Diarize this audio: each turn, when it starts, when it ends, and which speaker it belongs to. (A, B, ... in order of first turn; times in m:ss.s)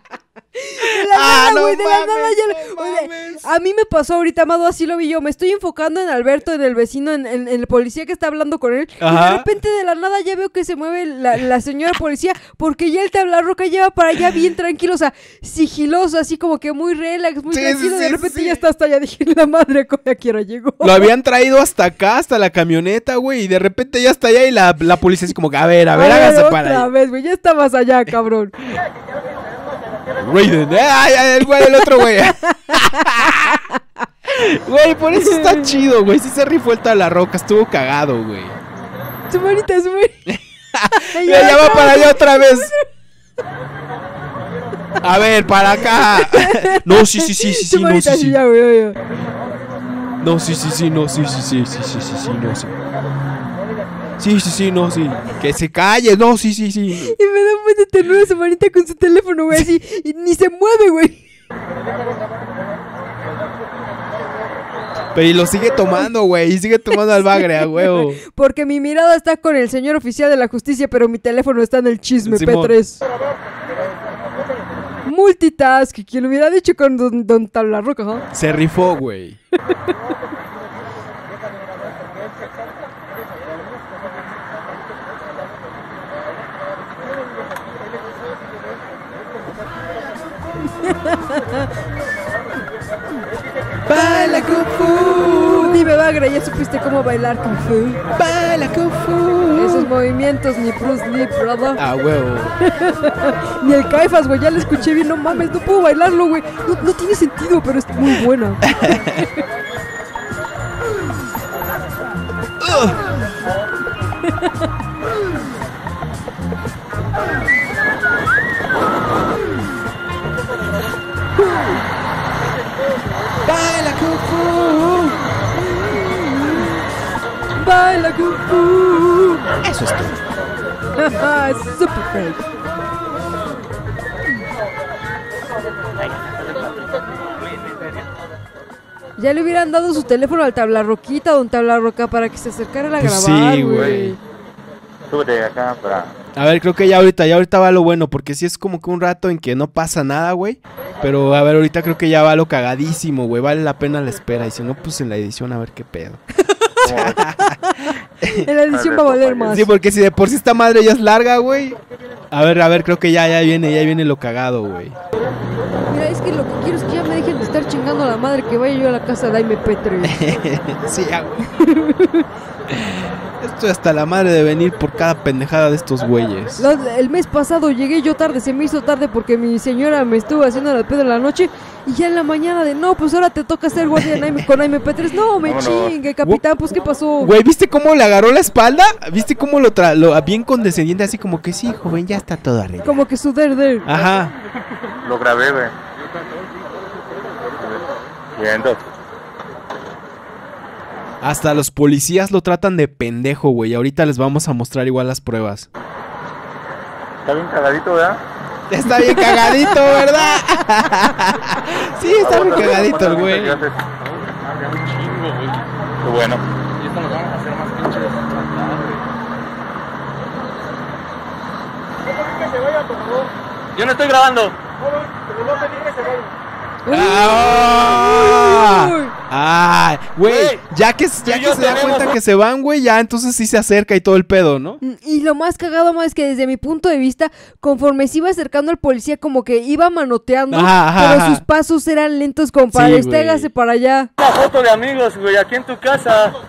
0:00.6-0:21.1 A
0:00.9-0:03.4 B
0:09.0-0:09.5 B
0:17.5-0:18.6 B
0:20.8-0:26.9 B
0:25.9-0:28.6 A
0:30.2-0:33.6 B
0:32.0-0:33.6 A
0:34.3-0:38.6 B
0:35.2-0:35.7 A
0:39.3-0:40.3 A
0:40.3-0:42.7 B
0:40.9-0:42.8 A
0:45.0-0:48.4 B
0:46.1-0:49.0 A
0:50.2-0:52.7 B
0:54.2-0:57.2 B
0:57.1-1:01.2 A
1:05.1-1:08.2 B
1:07.2-1:13.0 A
1:12.2-1:12.8 B
1:15.0-1:18.3 A
1:18.3-1:19.4 B
1:30.8-1:31.4 A
1:33.9-1:35.9 B
1:33.9-1:38.0 A
1:38.1-1:39.9 B
1:39.6-1:41.8 A
1:41.8-1:42.6 B
1:42.8-1:48.6 A
1:48.7-1:49.2 B
1:52.6-1:53.0 B
2:03.4-2:05.2 B
2:05.7-2:06.6 A
2:07.6-2:09.4 A
2:09.6-2:10.2 B
2:11.0-2:12.4 A
2:19.2-2:24.2 A
2:23.0-2:24.2 B
2:25.1-2:26.1 C
2:26.4-2:36.2 B
2:36.8-2:37.2 C
2:36.8-2:37.5 B
2:38.2-2:38.5 B
2:38.3-2:39.7 A
2:38.7-2:39.6 C
2:39.5-2:41.8 B
2:42.3-2:45.0 B
2:45.9-2:50.3 A
2:50.0-2:51.4 B
2:51.5-2:52.3 A
2:52.7-2:56.7 B
2:56.6-3:07.4 A
3:05.4-3:05.9 C
3:07.2-3:13.0 B
3:12.8-3:13.9 A
3:13.9-3:14.3 B
3:15.0-3:15.7 C
3:18.4-3:18.8 C
3:21.2-3:25.7 B
3:27.2-3:28.2 C
3:28.7-3:33.6 B
3:32.2-3:33.8 C
3:34.0-3:35.6 D
3:36.0-3:36.4 C
3:36.8-3:39.0 D
3:43.8-3:44.6 D
3:46.8-3:49.1 A
3:46.9-3:54.8 B
3:50.2-3:50.6 D
3:51.2-3:52.1 D
3:54.8-4:04.1 A
4:00.5-4:01.4 B
4:02.7-4:03.5 B
4:04.2-4:06.4 D